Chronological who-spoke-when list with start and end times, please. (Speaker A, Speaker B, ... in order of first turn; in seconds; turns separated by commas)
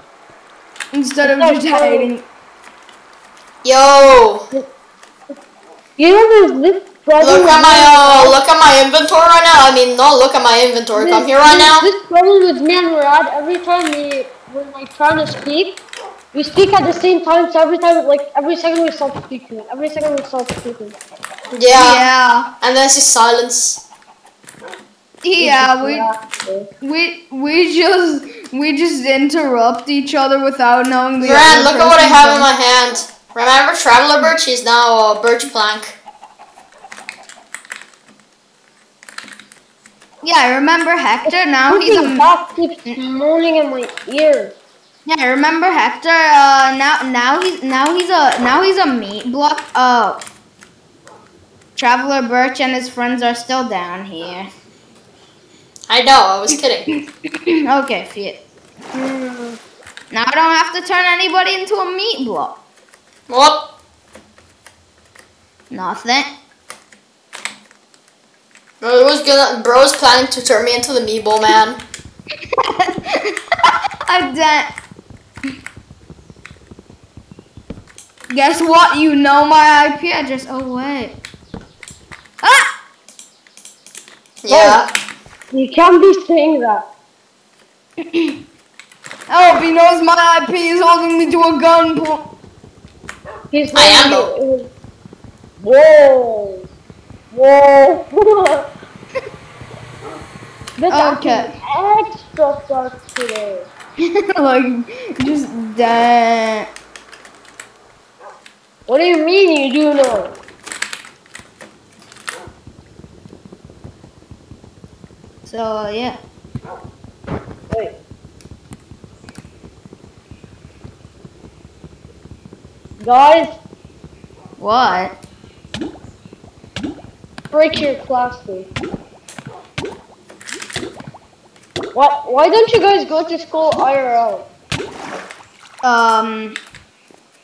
Speaker A: 0.9-2.2, Speaker B: 1.2-2.1, Speaker C: 3.6-4.5, Speaker B: 6.0-8.3, Speaker C: 7.2-11.9, Speaker B: 10.9-15.8, Speaker B: 16.3-20.9, Speaker C: 21.5-22.1, Speaker A: 21.7-22.5, Speaker C: 22.6-23.8, Speaker A: 25.2-26.1, Speaker B: 25.4-26.7, Speaker A: 26.8-32.5, Speaker C: 31.2-36.0, Speaker A: 40.2-42.2, Speaker B: 41.3-44.5, Speaker A: 45.0-50.2, Speaker A: 51.8-54.5, Speaker C: 55.9-56.9, Speaker A: 56.9-58.4, Speaker B: 58.9-59.6, Speaker A: 60.1-62.6, Speaker C: 63.3-63.6, Speaker A: 65.7-66.3, Speaker C: 68.8-71.8, Speaker A: 72.4-74.7, Speaker A: 78.3-81.2, Speaker A: 82.4-82.7, Speaker C: 84.4-84.9, Speaker B: 84.5-84.8, Speaker B: 85.5-86.8, Speaker A: 88.0-88.4, Speaker A: 89.3-92.2, Speaker B: 93.5-94.7, Speaker C: 93.7-94.3, Speaker B: 95.6-96.7, Speaker B: 97.3-98.7, Speaker B: 100.8-103.7, Speaker A: 100.9-101.5, Speaker A: 104.0-106.7, Speaker B: 108.9-110.3, Speaker A: 115.4-116.2, Speaker B: 123.0-123.5, Speaker A: 124.6-125.2, Speaker B: 127.5-128.7, Speaker B: 131.9-134.5, Speaker A: 135.8-136.6